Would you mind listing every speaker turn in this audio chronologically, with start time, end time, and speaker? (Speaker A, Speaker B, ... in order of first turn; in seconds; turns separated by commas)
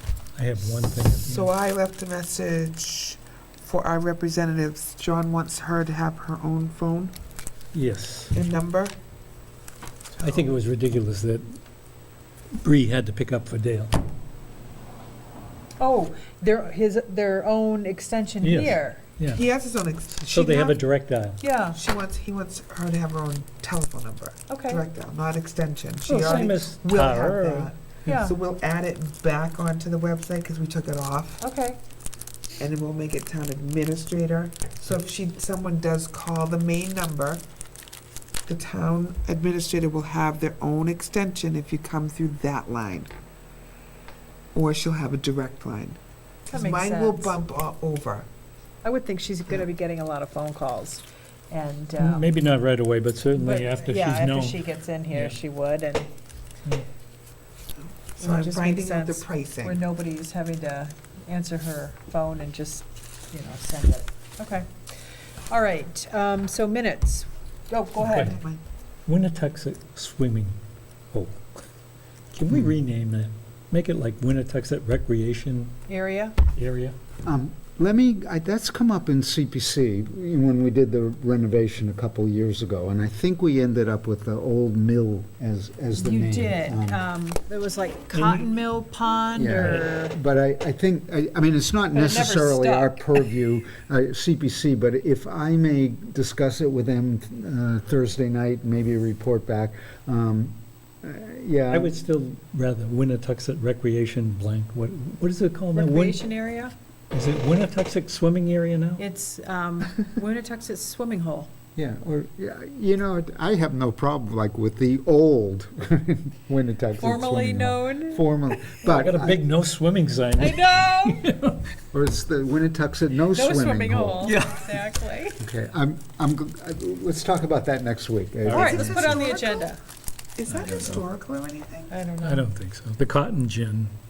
Speaker A: 0.3-1.5, Speaker B: 0.9-7.1, Speaker A: 7.7-8.4, Speaker B: 8.3-9.0, Speaker B: 10.2-10.5, Speaker A: 10.2-11.5, Speaker A: 12.6-13.9, Speaker C: 15.8-19.1, Speaker A: 18.4-19.4, Speaker B: 19.3-20.8, Speaker A: 20.1-21.4, Speaker C: 21.4-21.8, Speaker B: 21.7-31.4, Speaker C: 24.5-24.8, Speaker A: 26.1-28.2, Speaker C: 26.1-26.5, Speaker C: 28.1-28.4, Speaker C: 31.4-31.8, Speaker B: 32.5-37.4, Speaker B: 38.5-43.1, Speaker B: 44.5-48.3, Speaker C: 46.5-47.3, Speaker C: 48.8-52.3, Speaker A: 52.0-54.6, Speaker C: 53.3-56.1, Speaker B: 57.8-59.8, Speaker C: 58.2-64.7, Speaker C: 65.5-68.3, Speaker A: 68.0-68.3, Speaker B: 68.0-68.6, Speaker A: 69.0-70.5, Speaker A: 71.1-71.6, Speaker A: 72.3-75.7, Speaker C: 75.9-76.3, Speaker A: 76.5-77.0, Speaker D: 77.2-87.0, Speaker C: 86.0-90.1, Speaker D: 88.1-88.4, Speaker D: 89.3-101.9, Speaker C: 91.9-93.3, Speaker A: 101.7-106.2, Speaker C: 105.7-106.7, Speaker A: 107.1-109.0, Speaker C: 109.0-111.5, Speaker D: 111.8-119.4, Speaker C: 117.0-118.3, Speaker A: 118.8-121.6, Speaker C: 120.4-121.3, Speaker D: 121.9-124.4, Speaker C: 123.3-125.4, Speaker A: 124.2-124.8, Speaker D: 125.4-129.2, Speaker A: 128.4-129.2, Speaker B: 128.5-129.7, Speaker C: 128.5-129.8, Speaker B: 130.3-131.9, Speaker A: 130.5-131.0, Speaker C: 131.9-132.5, Speaker A: 132.2-133.9